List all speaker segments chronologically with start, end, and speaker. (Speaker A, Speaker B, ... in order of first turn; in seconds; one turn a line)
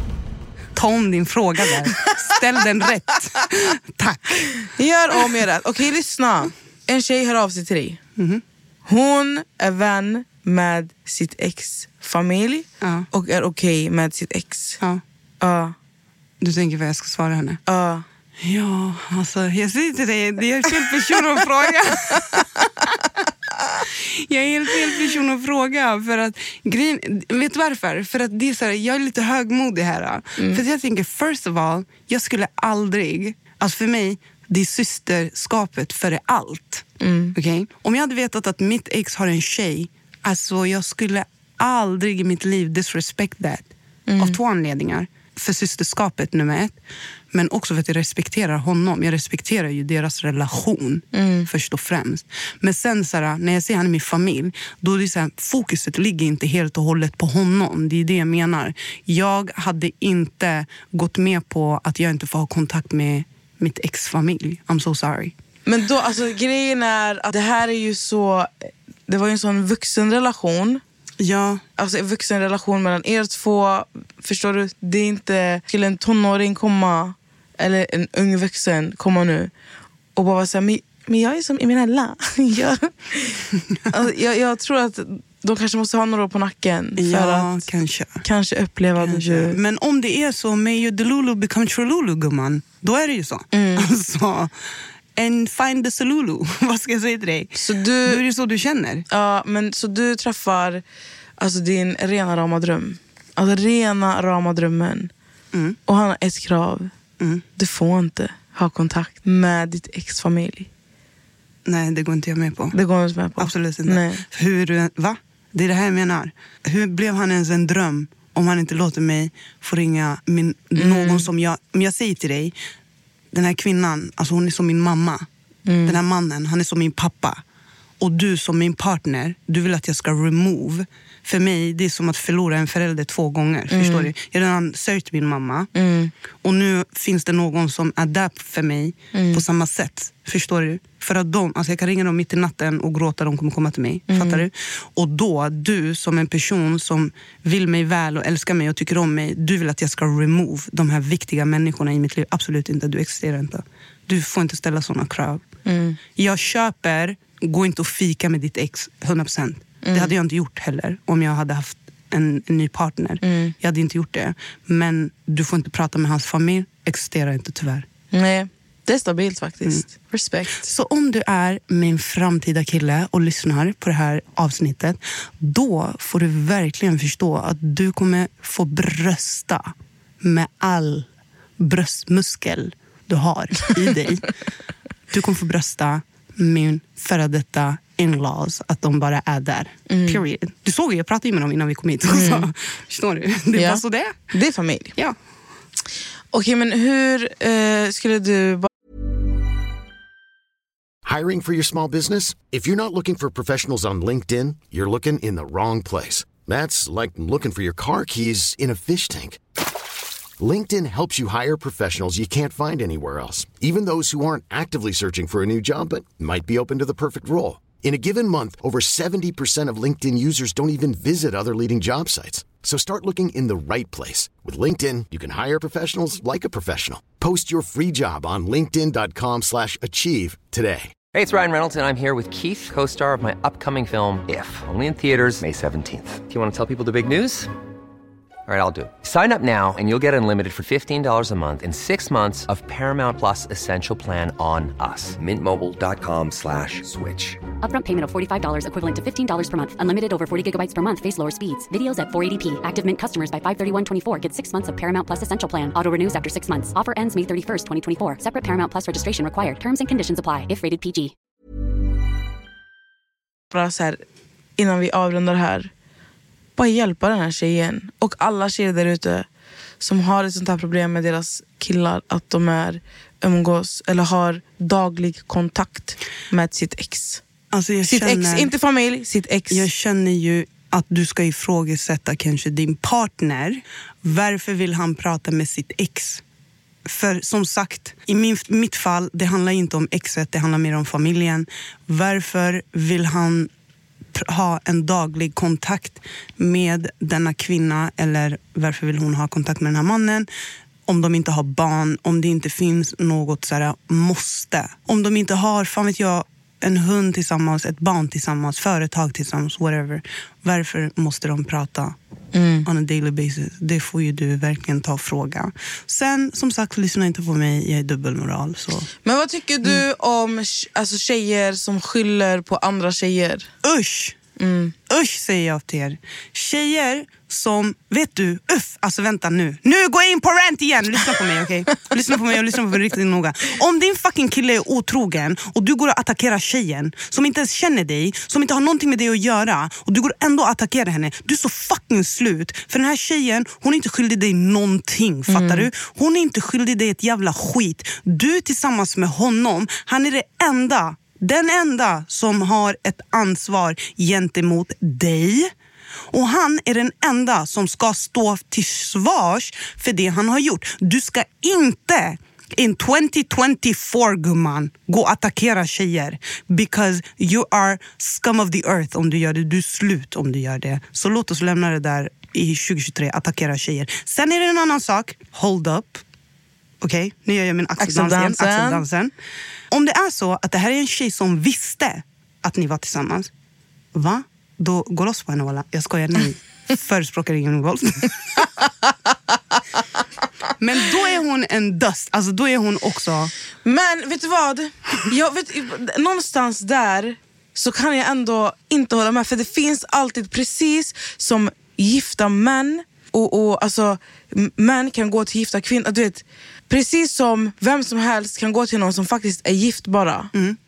Speaker A: 0.8-4.5
Speaker B: 4.6-8.0
Speaker A: 8.2-8.4
Speaker B: 8.9-14.8
Speaker A: 12.8-13.1
Speaker B: 15.4-15.8
Speaker A: 16.4-17.6
Speaker B: 17.7-18.1
Speaker A: 18.4-22.9
Speaker A: 23.9-46.8
Speaker B: 37.0-37.4
Speaker B: 44.1-44.4
Speaker A: 47.3-65.3
Speaker B: 51.1-51.5
Speaker B: 65.7-68.5
Speaker B: 69.1-70.8
Speaker A: 71.2-71.6
Speaker B: 71.8-79.5
Speaker B: 80.2-87.6
Speaker A: 87.0-88.2
Speaker B: 88.2-89.6
Speaker A: 89.0-94.5
Speaker B: 93.5-93.9
Speaker A: 95.2-99.1
Speaker B: 97.6-98.2
Speaker B: 99.1-100.8
Speaker B: 101.4-105.1
Speaker B: 105.9-106.9
Speaker B: 107.6-110.7
Speaker A: 111.7-112.8
Speaker B: 112.7-114.2
Speaker A: 113.4-122.5
Speaker B: 120.8-121.3
Speaker A: 123.3-125.3
Speaker B: 125.7-126.0
Speaker A: 125.8-127.4
Speaker A: 128.0-135.7
Speaker B: 133.7-134.1
Speaker B: 135.8-136.1
Speaker A: 136.4-155.4
Speaker B: 139.1-139.4
Speaker B: 144.1-144.5
Speaker B: 155.7-156.0
Speaker A: 156.2-167.9
Speaker B: 159.8-160.1
Speaker B: 163.2-163.6
Speaker B: 168.1-170.7
Speaker A: 170.6-181.1
Speaker A: 181.6-184.3
Speaker A: 185.1-194.3
Speaker B: 189.9-190.2
Speaker B: 192.1-192.5
Speaker B: 193.5-194.9
Speaker B: 196.3-198.7
Speaker C: 201.1-209.4
Speaker C: 210.4-230.9
Speaker D: 231.1-237.5
Speaker D: 238.5-247.5
Speaker E: 247.6-261.1
Speaker B: 263.5-264.0
Speaker B: 264.6-265.7
Speaker B: 266.6-269.3
Speaker B: 269.8-277.2
Speaker A: 277.5-278.5
Speaker B: 277.8-279.7
Speaker A: 279.5-286.2
Speaker A: 286.9-293.5
Speaker A: 294.1-300.3
Speaker A: 300.9-312.0
Speaker B: 312.3-312.7
Speaker A: 312.7-318.9
Speaker B: 319.0-323.5
Speaker A: 323.6-324.2
Speaker B: 324.4-324.8
Speaker A: 324.9-355.5
Speaker B: 345.3-345.7
Speaker A: 356.1-376.0
Speaker A: 376.8-379.1
Speaker B: 377.8-378.8
Speaker A: 379.7-383.3
Speaker A: 383.9-388.5
Speaker A: 390.6-393.3
Speaker B: 393.6-410.3